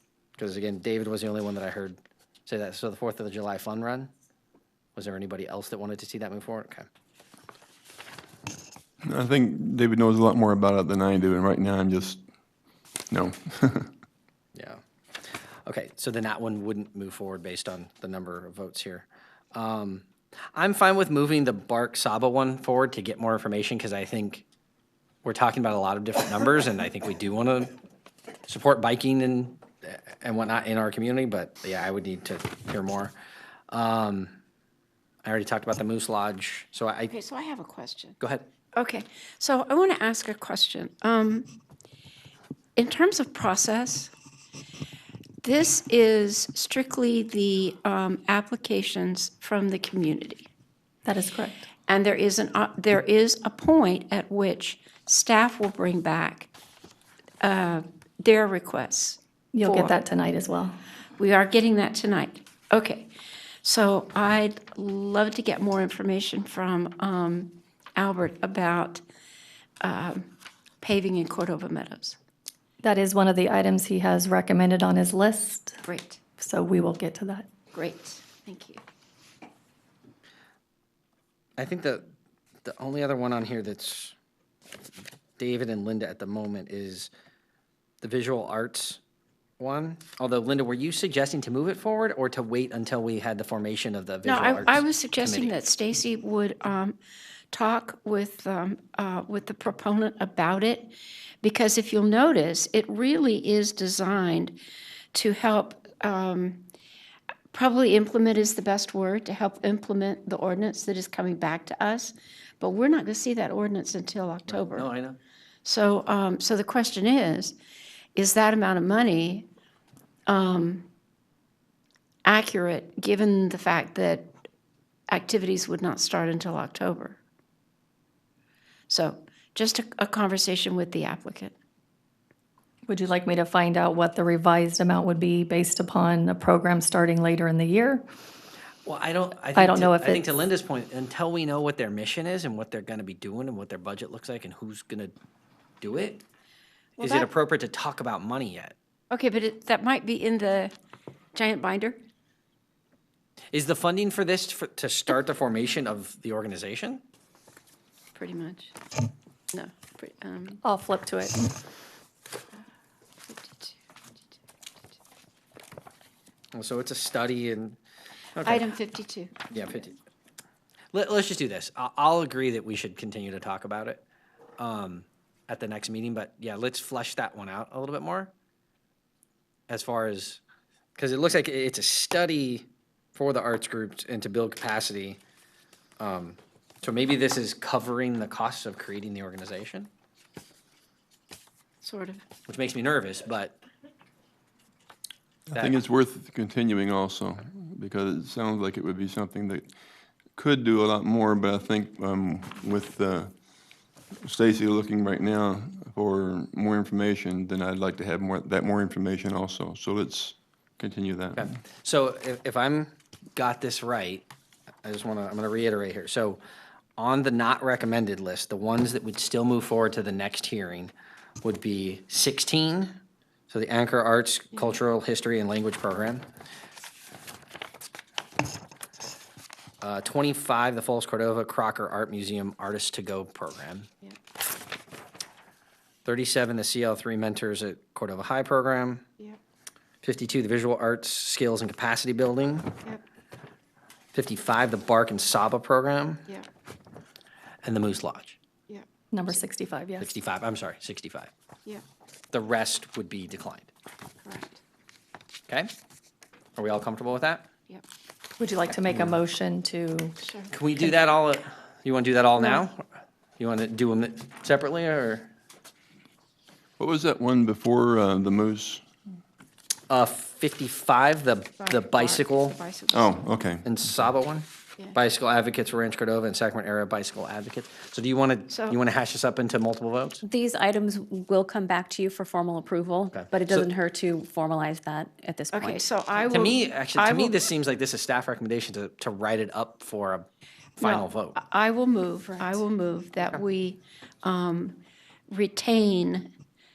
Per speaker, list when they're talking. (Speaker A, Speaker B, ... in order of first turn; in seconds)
Speaker A: 0.4-4.1, 5.0-6.9, 14.5-14.8, 15.7-24.4, 25.2-27.8, 28.5-33.1, 33.7-34.3, 35.2-37.1, 38.2-38.4, 81.6-82.1, 82.6-84.1, 85.4-87.1, 88.0-89.0, 89.6-95.5, 114.5-115.2, 138.8-145.1, 145.8-146.2, 147.0-148.7, 153.5-157.0, 166.5-167.8, 168.3-168.6, 169.5-169.9, 170.9-174.0, 174.6-178.3, 179.7-180.4, 180.9-185.2, 186.0-189.9, 192.5-193.5, 195.5-195.8, 211.3-214.2, 214.8-216.4, 217.0-220.9, 221.4-222.9, 223.5-226.2, 229.8-233.9, 236.0-239.0, 240.0-242.8, 244.1-246.2, 247.6-248.4, 250.0-251.3, 252.3-253.7, 256.6-257.5, 260.5-262.8, 263.4-265.3, 269.9-272.5, 273.6-280.2, 283.1-283.7, 286.3-290.2, 290.8-291.4
Speaker B: 9.1-12.2, 13.1-13.9, 195.5-199.7, 200.3-203.4, 204.2-211.4, 266.8-268.9, 272.9-273.7
Speaker C: 37.1-38.2, 38.8-41.5, 42.8-44.1, 45.4-50.5, 51.9-56.5, 57.4-60.0, 61.2-63.1, 63.6-69.0, 69.8-70.3, 70.8-72.2, 75.8-76.2, 77.7-78.8, 94.2-97.0, 97.5-104.6, 105.1-106.6, 107.5-114.9, 115.6-117.5, 118.2-119.5, 120.3-120.9, 122.2-124.3, 125.1-127.2, 128.9-131.6, 147.0-147.3, 149.1-150.7, 151.3-152.0, 158.1-158.8, 159.5-160.6, 163.3-163.8, 168.4-169.6, 191.8-192.2, 254.2-254.6, 260.2-260.5, 271.6-273.2, 278.5-278.8, 285.5-287.4, 290.8-294.8, 295.3-296.3
Speaker D: 51.0-51.6, 59.5-60.8, 72.8-75.8, 76.4-77.5, 132.9-138.0, 139.5-140.4, 160.6-161.5, 249.1-250.1, 258.4-260.1
Speaker E: 280.3-285.7